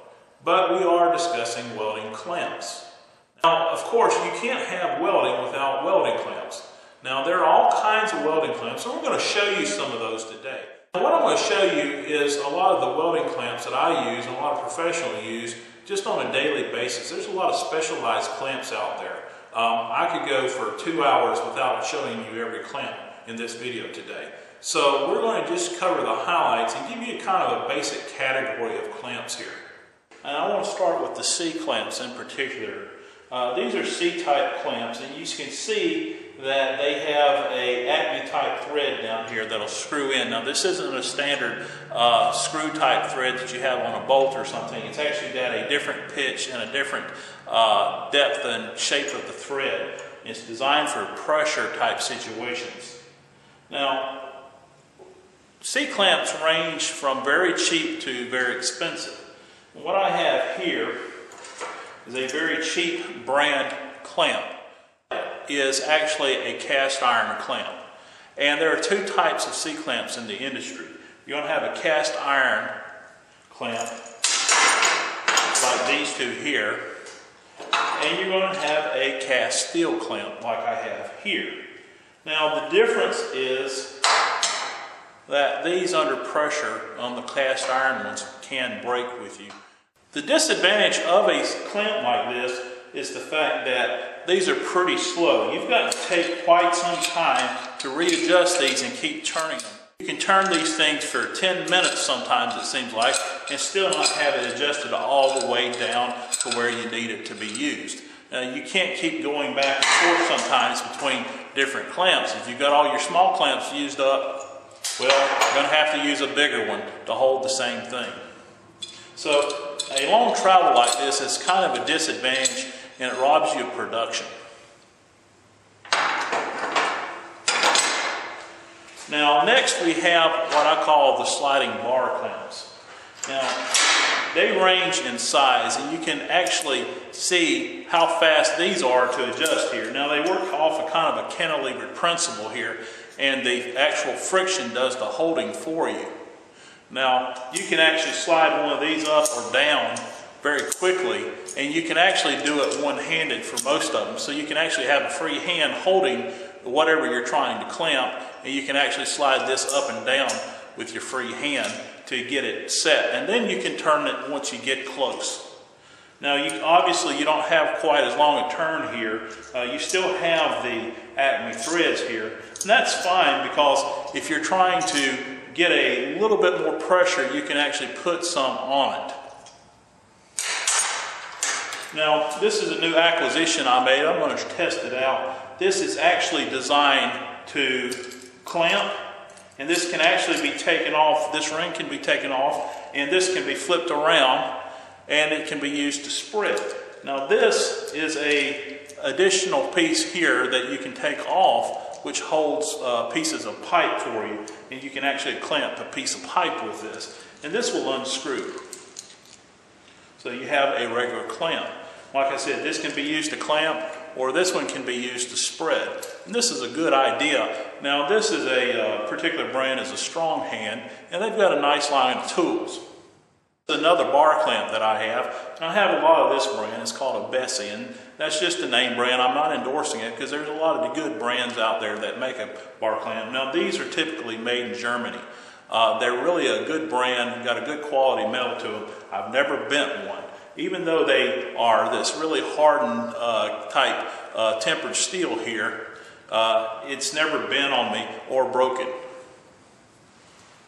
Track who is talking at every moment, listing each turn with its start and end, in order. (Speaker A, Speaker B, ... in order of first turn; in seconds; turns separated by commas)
Speaker A: 0.4-29.6, Speaker A: 30.2-53.0, Speaker A: 53.7-54.3, Speaker A: 55.6-61.0, Speaker A: 62.0-64.5, Speaker A: 65.1-67.8, Speaker A: 68.4-72.7, Speaker A: 73.5-73.9, Speaker A: 75.6-76.8, Speaker A: 77.9-81.6, Speaker A: 82.2-84.0, Speaker A: 85.3-89.5, Speaker A: 90.1-118.2, Speaker A: 119.2-124.3, Speaker A: 129.1-132.7, Speaker A: 133.2-133.6, Speaker A: 134.3-146.1, Speaker A: 146.9-165.4, Speaker A: 166.2-179.2, Speaker A: 181.9-188.9, Speaker A: 189.6-194.5, Speaker A: 195.1-208.6, Speaker A: 210.2-222.8, Speaker A: 223.7-248.9